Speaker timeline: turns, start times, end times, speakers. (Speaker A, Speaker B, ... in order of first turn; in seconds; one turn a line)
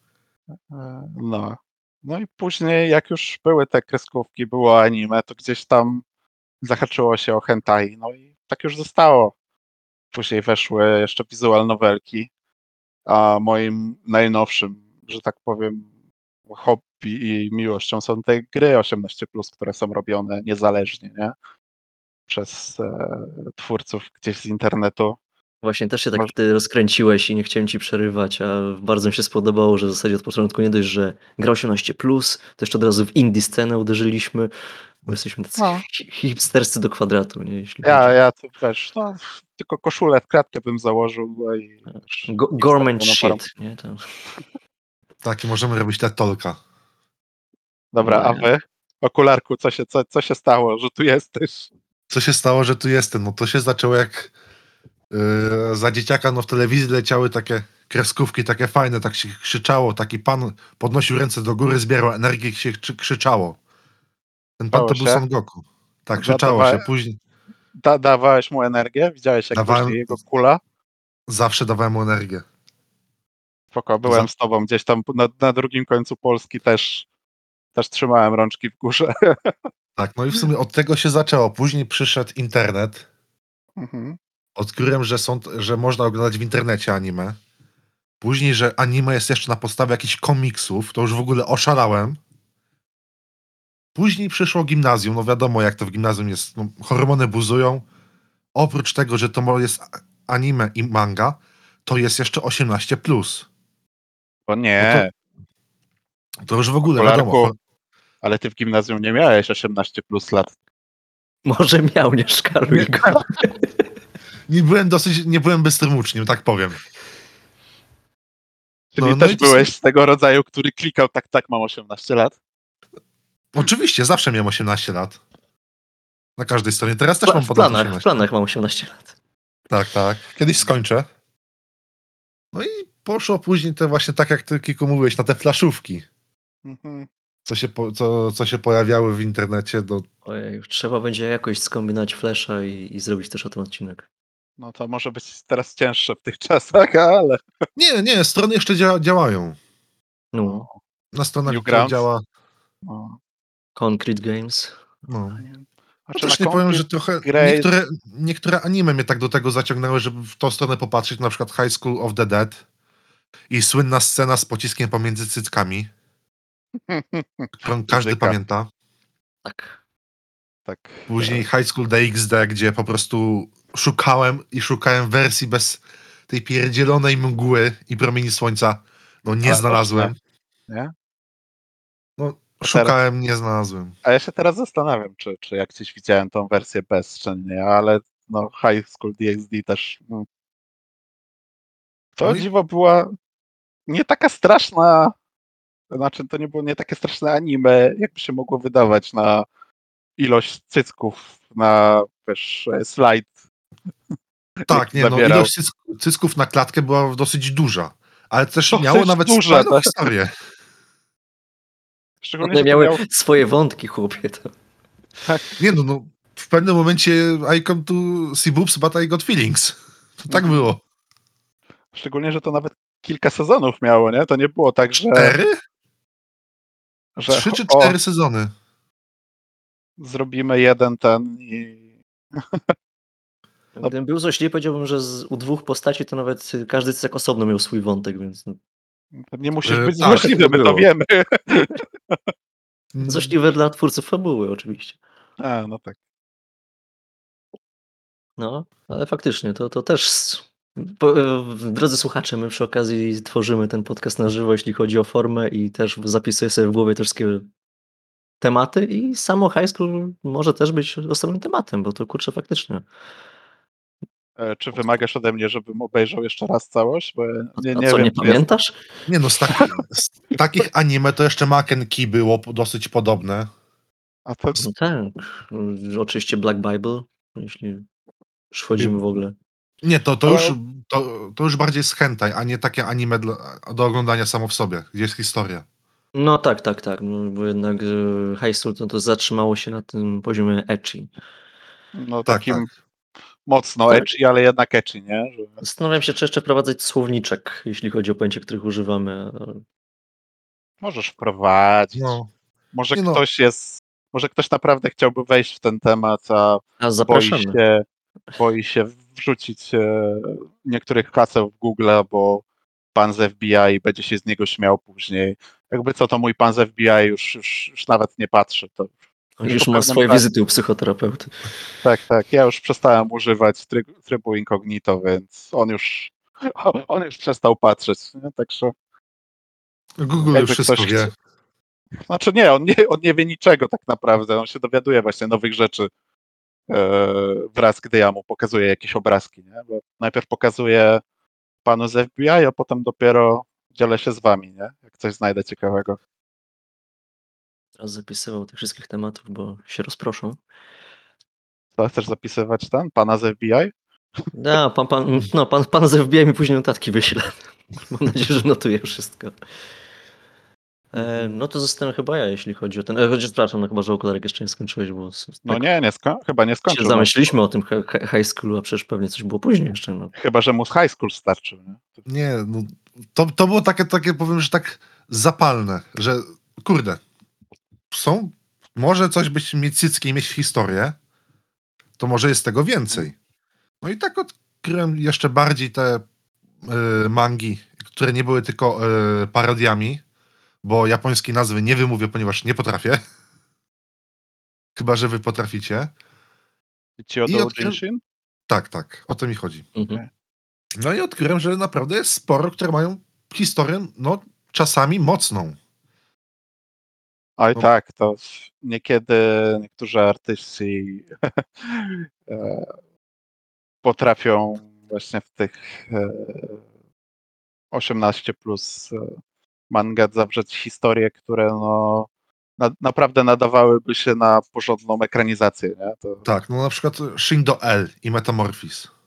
Speaker A: 0.7-6.0
Speaker A: 6.6-9.3
Speaker A: 10.1-12.3
Speaker A: 13.1-15.9
Speaker A: 16.5-21.3
Speaker A: 22.3-25.2
Speaker B: 25.6-34.5
Speaker B: 35.0-38.1
Speaker A: 35.6-35.8
Speaker A: 37.8-43.4
Speaker B: 42.2-44.0
Speaker C: 45.2-46.6
Speaker A: 47.9-51.7
Speaker B: 48.0-48.5
Speaker C: 52.1-54.3
Speaker C: 55.1-63.6
Speaker C: 64.6-67.2
Speaker A: 64.7-65.2
Speaker A: 66.2-66.8
Speaker A: 67.8-70.6
Speaker C: 69.5-70.0
Speaker C: 71.3-72.4
Speaker A: 73.7-77.0
Speaker A: 77.7-79.5
Speaker C: 80.0-83.0
Speaker A: 83.8-84.2
Speaker C: 84.6-87.3
Speaker C: 88.2-92.2
Speaker C: 93.9-97.8
Speaker C: 98.5-103.5
Speaker A: 104.5-105.1
Speaker C: 104.8-105.0
Speaker C: 106.4-107.5
Speaker A: 106.8-107.5
Speaker A: 108.2-110.5
Speaker B: 111.5-113.8
Speaker A: 112.8-113.2
Speaker C: 114.5-116.8
Speaker A: 118.9-122.3
Speaker C: 119.0-119.7
Speaker C: 123.5-125.2
Speaker C: 126.4-128.2
Speaker B: 127.2-129.1
Speaker C: 129.7-131.1
Speaker C: 132.5-136.1
Speaker A: 136.6-137.1
Speaker C: 137.5-140.0
Speaker B: 140.2-144.0
Speaker A: 144.6-147.4
Speaker C: 147.8-149.6
Speaker B: 150.3-150.7
Speaker A: 150.4-150.8
Speaker C: 151.1-152.2
Speaker A: 151.4-152.0
Speaker A: 152.8-153.2
Speaker B: 153.8-154.7
Speaker C: 155.1-155.4
Speaker A: 155.5-157.7
Speaker C: 156.2-162.6
Speaker C: 163.5-165.9
Speaker A: 166.9-168.4
Speaker C: 167.6-168.7
Speaker B: 169.4-169.8
Speaker A: 170.7-171.4
Speaker C: 171.1-180.1
Speaker A: 179.4-180.1
Speaker C: 182.2-183.9
Speaker A: 182.7-182.9
Speaker A: 184.0-190.2
Speaker A: 192.2-193.1
Speaker A: 193.9-195.1
Speaker A: 195.9-199.4
Speaker A: 200.2-203.3
Speaker A: 204.6-205.5
Speaker C: 204.7-210.3
Speaker A: 208.7-209.9
Speaker A: 212.2-213.1
Speaker B: 212.4-214.5
Speaker C: 215.6-220.8
Speaker A: 220.3-220.6
Speaker A: 221.9-225.4
Speaker C: 225.1-225.6
Speaker A: 227.2-227.9
Speaker C: 227.3-228.5
Speaker A: 230.0-231.8
Speaker A: 232.3-232.6
Speaker B: 233.8-238.6
Speaker A: 239.2-242.2
Speaker C: 239.7-240.3
Speaker B: 240.0-240.8
Speaker C: 242.9-243.3
Speaker B: 243.0-245.0
Speaker A: 245.4-246.0
Speaker B: 248.4-257.4
Speaker B: 258.4-262.8
Speaker A: 264.4-268.4
Speaker B: 267.6-268.8
Speaker C: 269.1-273.5
Speaker A: 274.2-274.7
Speaker B: 274.6-277.9
Speaker B: 278.5-279.3
Speaker C: 279.8-285.6
Speaker A: 280.2-280.5
Speaker B: 286.1-291.1
Speaker A: 291.9-292.7
Speaker C: 292.3-292.6
Speaker A: 293.5-295.6
Speaker B: 295.6-299.6
Speaker A: 300.8-302.2
Speaker C: 302.0-302.3
Speaker A: 302.7-307.8
Speaker C: 302.9-303.2
Speaker B: 306.8-307.6
Speaker A: 308.4-318.9
Speaker B: 319.4-321.4
Speaker A: 319.4-320.2
Speaker A: 321.8-328.7
Speaker C: 330.0-331.1
Speaker A: 330.3-331.1
Speaker A: 332.1-335.9
Speaker A: 336.7-341.0
Speaker A: 341.6-346.0
Speaker B: 347.8-350.4
Speaker A: 351.8-353.7
Speaker B: 354.3-359.3
Speaker B: 360.9-365.6
Speaker A: 360.9-361.3
Speaker A: 365.5-367.3
Speaker B: 366.7-370.1
Speaker A: 370.1-372.0
Speaker C: 372.1-377.0
Speaker C: 377.9-381.0
Speaker C: 382.0-383.1
Speaker C: 383.8-386.0
Speaker C: 386.6-390.0
Speaker C: 390.6-393.0
Speaker C: 394.8-395.9
Speaker A: 397.0-398.0
Speaker C: 397.3-397.8
Speaker C: 398.5-399.7
Speaker B: 399.8-400.0
Speaker C: 400.8-405.6
Speaker A: 407.4-412.7
Speaker A: 413.8-416.6
Speaker A: 417.7-419.2
Speaker A: 419.7-426.2
Speaker C: 426.2-428.9